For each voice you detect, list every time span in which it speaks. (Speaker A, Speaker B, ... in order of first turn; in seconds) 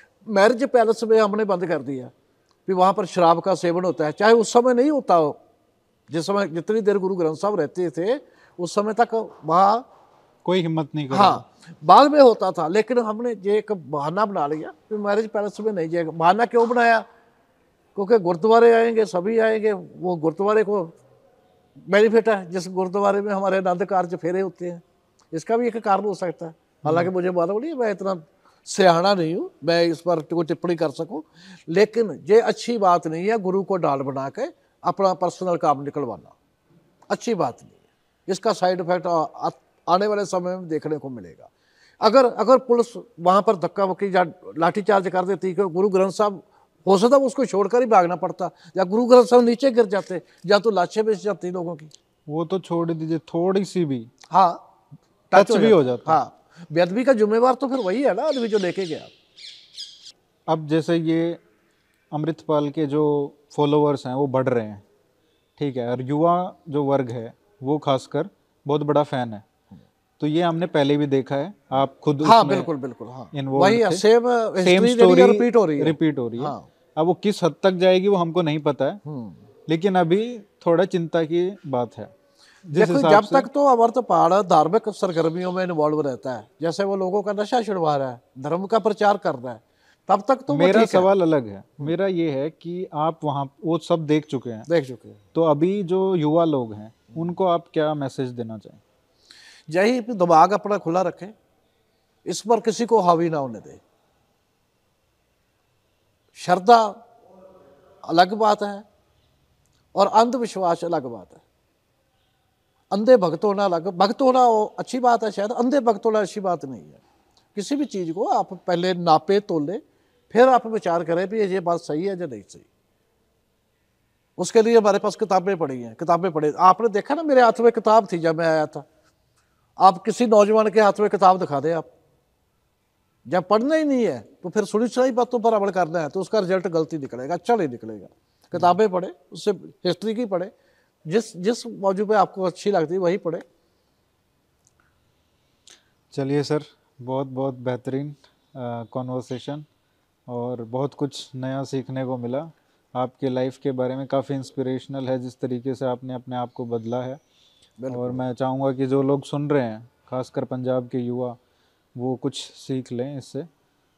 Speaker A: 0.2-2.1, 2.7-5.4, 6.1-9.9, 11.1-17.1, 17.9-20.9, 21.8-36.4, 37.1-51.9, 54.3-54.6, 55.3-59.1, 72.2-76.7, 79.0-79.4, 82.7-91.1, 94.7-95.2, 99.7-101.3, 102.2-103.8, 106.3-107.0, 108.1-108.8, 109.9-111.4, 112.9-117.0, 117.5-122.7, 124.4-128.8, 129.8-131.9, 133.3-140.5, 141.1-143.4, 157.8-158.2
Speaker B: 10.4-11.4, 26.8-27.1, 52.3-54.1, 55.3-56.2, 60.5-61.4, 62.1-64.8, 65.6-69.5, 70.2-72.7, 73.3-74.0, 74.6-79.0, 79.7-82.1, 82.7-83.5, 90.5-94.7, 95.3-98.8, 146.1-149.7, 150.3-157.2, 157.9-161.4, 162.0-163.5